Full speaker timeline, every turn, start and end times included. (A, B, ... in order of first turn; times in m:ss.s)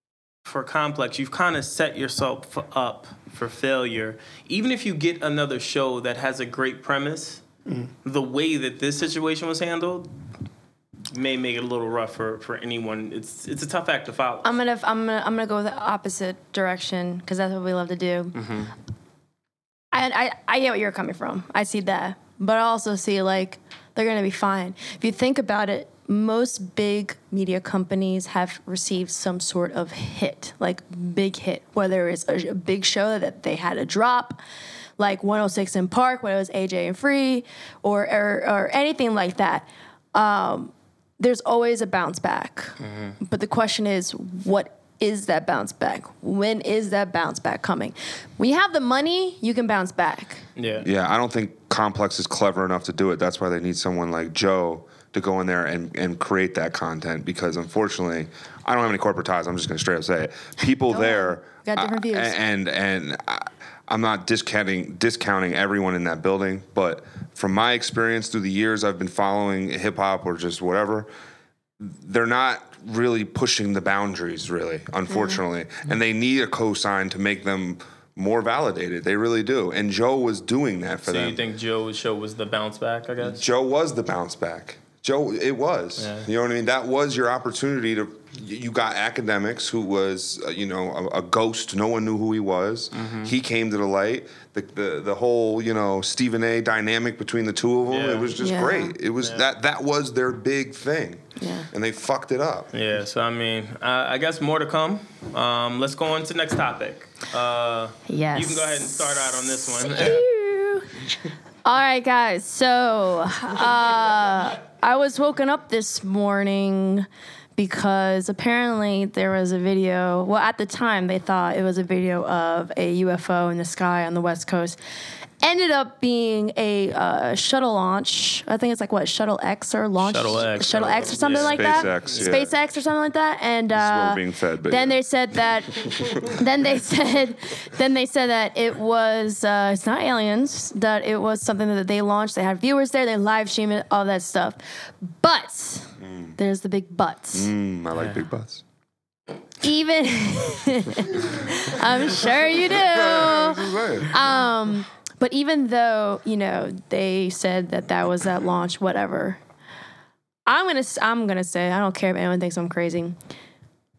0:00.4-0:07.4 A
0:08.0-0:10.1 A
0:11.1-0:14.5 A
0:14.4-0:18.4 B
0:18.3-0:18.7 A
0:19.9-0:34.4 B
0:35.0-0:50.4 B
0:42.8-0:43.2 A
0:50.6-0:50.9 A
0:50.8-1:11.1 C
1:00.9-1:02.4 B
1:11.8-1:21.4 C
1:15.1-1:15.4 B
1:21.0-1:23.4 A
1:23.2-1:42.7 C
1:26.0-1:26.3 A
1:32.9-1:33.3 A
1:37.9-1:38.3 A
1:38.4-1:38.9 B
1:39.2-1:39.4 A
1:41.4-1:41.7 B
1:42.7-1:50.2 A
1:48.1-1:50.9 B
1:51.6-2:04.8 B
2:05.4-2:27.5 B
2:10.0-2:12.3 A
2:11.2-2:12.5 C
2:13.7-2:15.0 C
2:26.0-2:26.3 C
2:27.3-2:28.6 C
2:28.0-2:28.2 A
2:29.6-2:39.4 B
2:32.6-2:34.2 C
2:40.4-2:43.2 B